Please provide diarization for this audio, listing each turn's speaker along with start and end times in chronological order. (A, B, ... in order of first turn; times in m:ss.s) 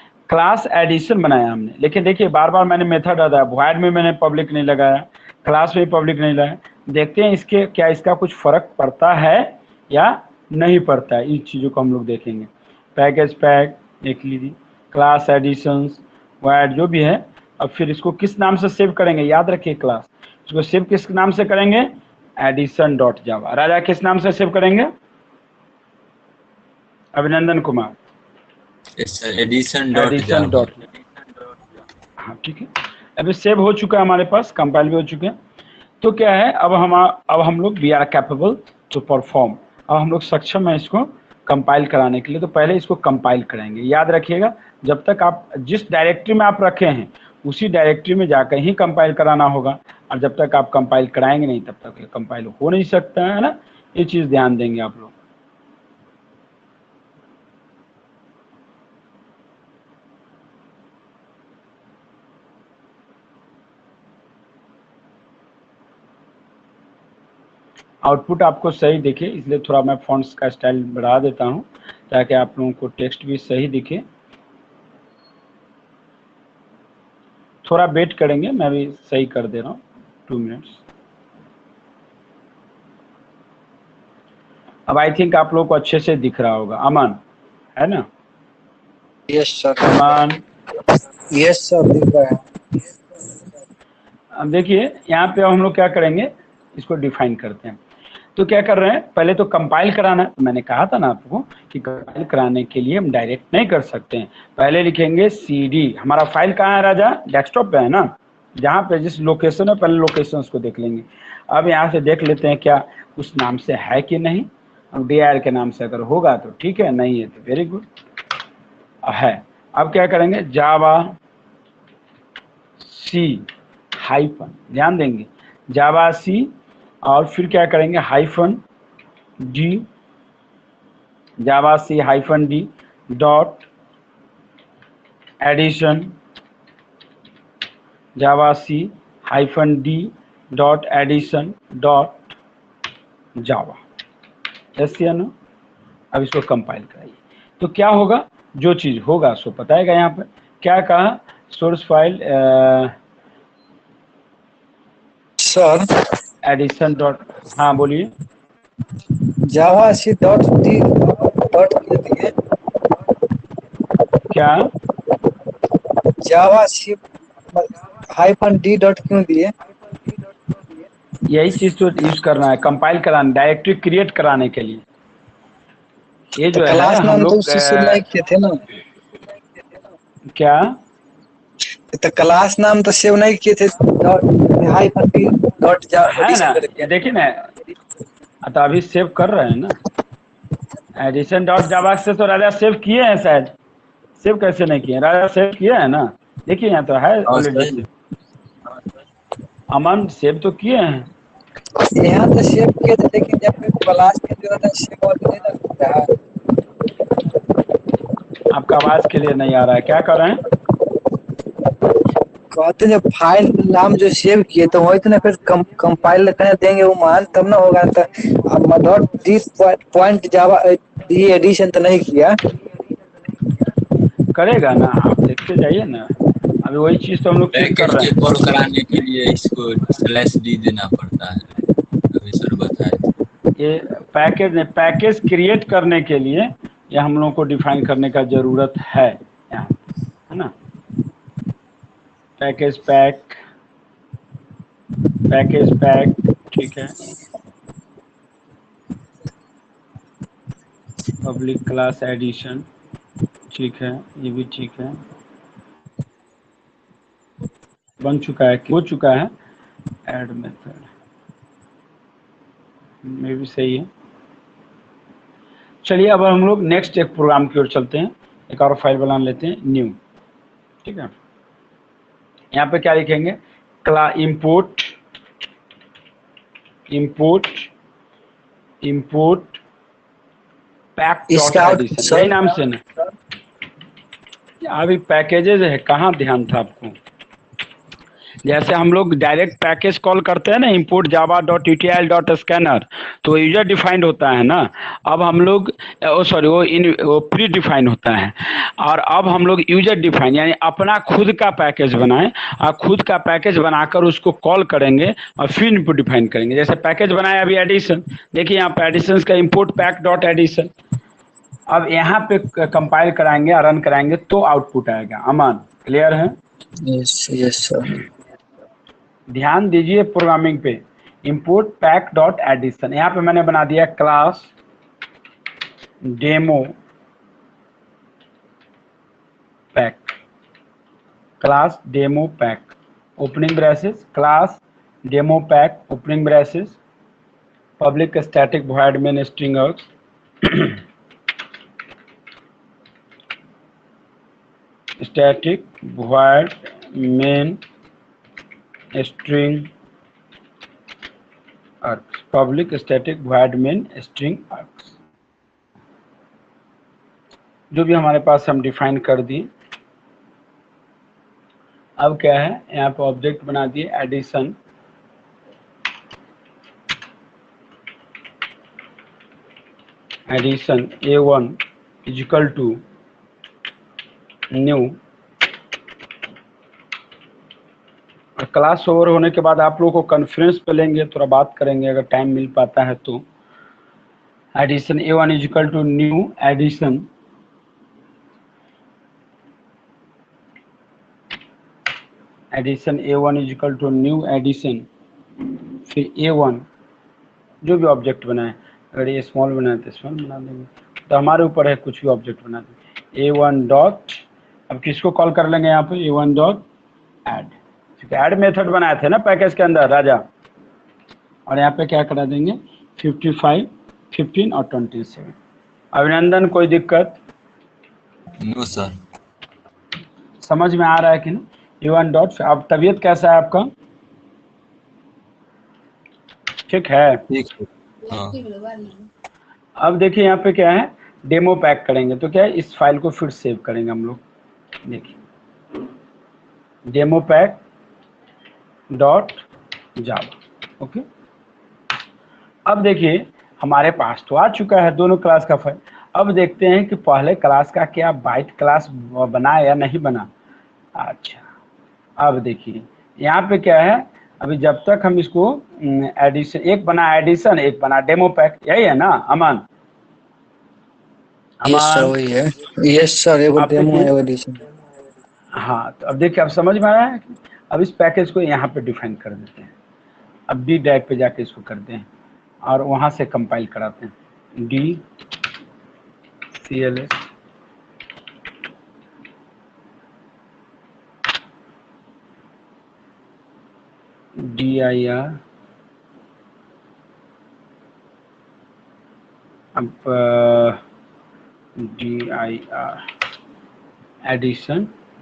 0:00.3-0:24.9 A
0:27.1-0:27.9 A
0:29.0-0:30.7 B
0:29.9-0:30.8 A
0:32.2-0:35.3 A
0:36.0-0:55.1 A
1:08.0-1:14.0 A
1:17.6-1:20.8 A
1:24.9-1:27.2 A
1:27.8-1:28.0 A
1:29.3-1:30.2 C
1:29.8-1:30.4 A
1:31.3-1:32.4 C
1:34.3-1:37.8 A
1:38.4-1:57.8 A
1:59.0-2:01.2 A
2:02.8-2:03.4 A
2:04.0-2:06.5 A
2:07.0-2:08.6 A
2:09.4-2:09.8 A
2:11.4-2:13.6 A
2:15.4-2:16.1 A
2:18.2-2:22.3 A
2:23.4-2:23.8 A
2:24.8-2:25.3 A
2:26.1-2:32.9 A
2:35.4-2:35.9 C
2:36.4-2:38.1 A
2:39.4-2:42.3 C
2:44.3-2:44.7 A
2:46.2-2:47.0 C
2:47.5-2:49.5 C
2:51.3-2:54.8 A
2:56.4-2:58.0 A
2:56.5-2:58.6 C
3:00.3-3:00.8 A
3:01.9-3:06.9 C
3:06.0-3:07.5 A
3:08.4-3:09.7 A
3:11.0-3:13.5 A
3:14.2-3:17.9 A
3:17.3-3:17.8 B
3:19.7-3:21.1 A
3:22.0-3:26.1 C
3:28.5-3:30.4 A
3:32.5-3:42.3 C
3:44.3-3:48.1 A
3:47.5-3:51.5 B
3:52.1-3:53.0 B
3:53.6-3:59.8 A
4:02.4-4:03.4 A
4:05.3-4:06.9 A
4:11.2-4:12.7 A
4:13.5-4:15.0 A
4:18.0-4:19.3 A
4:20.1-4:20.9 A
4:23.0-4:23.9 A
4:25.8-4:30.0 A
4:30.8-4:31.1 A
4:32.5-4:34.9 A
4:36.9-4:37.7 A
4:38.8-4:39.6 A
4:41.0-4:42.8 A
4:41.3-4:42.5 C
4:44.6-4:46.9 A
4:48.4-5:10.7 A
5:11.7-5:16.4 A
5:16.8-5:17.9 C
5:19.3-5:24.5 A
5:26.0-5:26.7 A
5:29.7-5:30.1 A
5:31.4-5:36.8 A
5:37.8-5:39.9 A
5:40.4-5:40.8 A
5:45.0-5:47.6 A
5:48.9-5:49.7 A
5:51.8-5:54.9 A
5:57.7-5:59.5 A
6:02.0-6:04.5 A
6:10.3-6:12.8 A
6:14.5-6:15.0 A
6:18.4-6:23.2 A
6:24.6-6:27.1 A
6:32.5-6:34.9 A
6:35.8-6:36.6 A
6:37.6-6:46.6 A
6:47.3-6:50.2 A
6:51.5-6:55.3 A
6:55.9-6:57.2 A
6:58.4-6:58.9 B
7:00.4-7:03.7 A
7:06.7-7:07.2 A
7:07.3-7:08.4 B
7:09.8-7:14.2 A
7:14.8-7:15.1 A
7:16.9-7:17.6 A
7:18.9-7:19.4 A
7:20.0-7:21.0 A
7:22.7-7:30.3 A
7:31.0-7:31.4 A
7:32.2-7:39.6 A
7:41.6-7:42.1 A
7:41.6-7:44.6 C
7:43.6-7:44.1 A
7:45.5-7:49.7 A
7:50.5-7:52.1 A
7:52.6-7:55.0 A
7:56.6-7:57.2 A
8:04.4-8:05.4 A
8:09.7-8:10.8 A
8:11.8-8:13.0 A
8:14.2-8:14.9 A